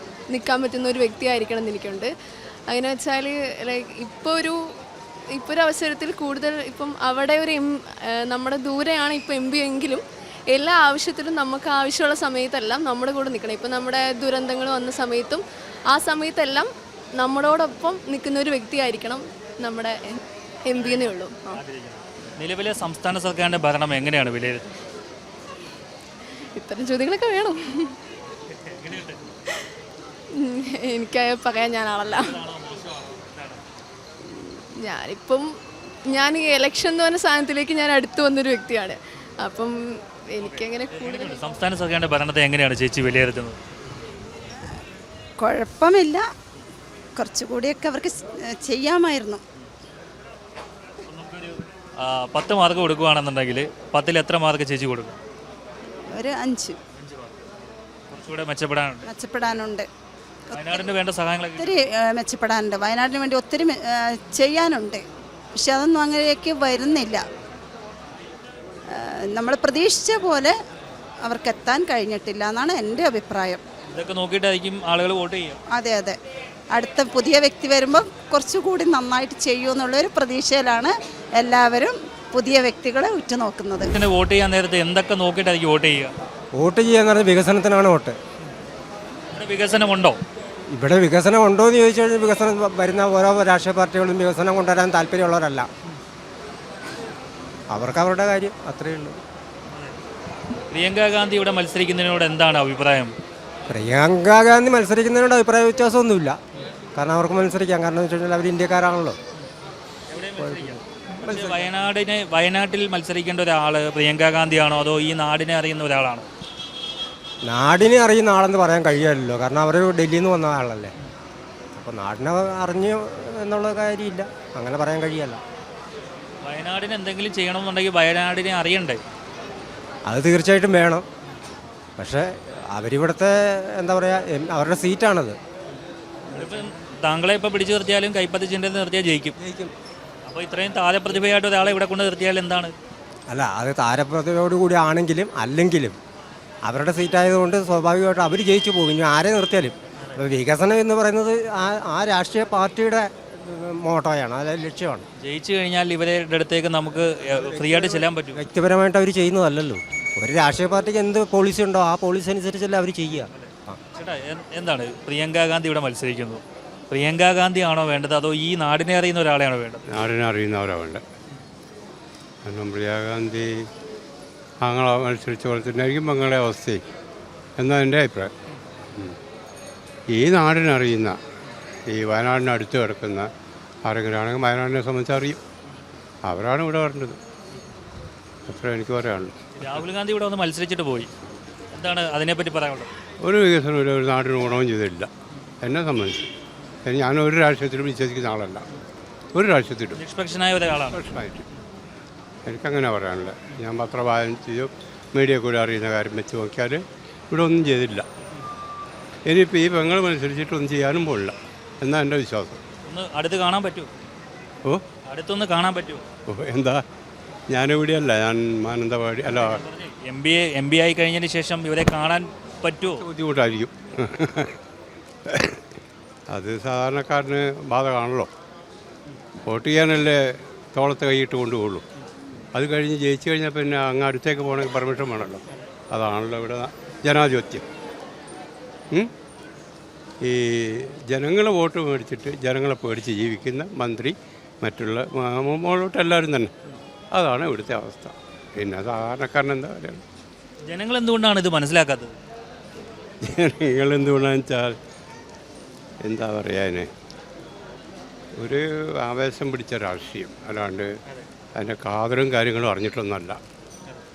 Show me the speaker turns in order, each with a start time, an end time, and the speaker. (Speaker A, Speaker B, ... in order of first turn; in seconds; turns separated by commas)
Speaker A: 0.3-2.1, Speaker A: 2.7-4.5, Speaker A: 5.3-21.5, Speaker B: 20.8-24.7, Speaker A: 26.6-27.9, Speaker B: 28.6-29.2, Speaker A: 30.3-32.4, Speaker B: 32.2-33.6, Speaker A: 34.5-35.5, Speaker A: 36.1-39.7, Speaker A: 40.4-41.4, Speaker B: 40.4-43.6, Speaker C: 45.4-46.2, Speaker C: 47.1-49.4, Speaker B: 51.1-55.1, Speaker C: 56.1-56.8, Speaker B: 57.0-57.3, Speaker B: 58.1-59.0, Speaker C: 59.0-59.9, Speaker C: 60.5-60.9, Speaker B: 60.5-61.8, Speaker C: 61.6-65.0, Speaker C: 65.6-67.2, Speaker C: 68.9-70.5, Speaker C: 71.2-73.6, Speaker B: 73.9-75.5, Speaker C: 75.7-76.2, Speaker C: 76.7-83.9, Speaker B: 83.9-86.1, Speaker D: 86.5-88.2, Speaker B: 89.3-90.2, Speaker D: 90.7-95.7, Speaker D: 97.7-99.2, Speaker B: 100.7-103.1, Speaker D: 103.7-106.4, Speaker D: 107.0-109.2, Speaker B: 110.1-116.2, Speaker D: 110.4-111.6, Speaker D: 117.4-120.9, Speaker D: 121.8-125.4, Speaker B: 126.4-129.0, Speaker D: 130.1-131.1, Speaker D: 132.0-135.4, Speaker B: 136.3-139.3, Speaker D: 139.4-139.7, Speaker B: 140.2-142.7, Speaker D: 143.3-146.0, Speaker D: 146.6-155.1, Speaker B: 155.2-158.4, Speaker D: 157.3-163.8, Speaker B: 163.3-169.8, Speaker E: 169.9-171.0, Speaker E: 172.4-173.5, Speaker E: 174.6-176.8, Speaker E: 177.6-178.3, Speaker E: 180.1-181.2, Speaker E: 181.9-183.3, Speaker E: 183.8-185.4, Speaker E: 186.2-187.2, Speaker E: 188.5-189.8, Speaker B: 189.6-191.1, Speaker B: 191.7-192.9, Speaker E: 193.2-195.1, Speaker E: 195.6-196.3, Speaker E: 196.8-198.6, Speaker E: 199.3-200.0, Speaker B: 199.9-201.0, Speaker E: 200.8-201.4, Speaker E: 202.4-208.1, Speaker E: 209.2-212.6, Speaker B: 212.8-213.9, Speaker B: 215.1-216.0, Speaker E: 216.3-216.8, Speaker E: 217.5-219.6, Speaker B: 219.3-223.0, Speaker E: 222.8-224.5, Speaker E: 225.3-225.6, Speaker E: 226.3-228.3, Speaker E: 229.4-230.1, Speaker E: 230.7-231.8, Speaker E: 232.5-237.6, Speaker E: 240.2-246.5, Speaker E: 247.1-250.0, Speaker B: 250.7-252.1, Speaker E: 253.2-254.8, Speaker E: 256.0-256.9, Speaker E: 258.4-260.9, Speaker E: 261.6-263.4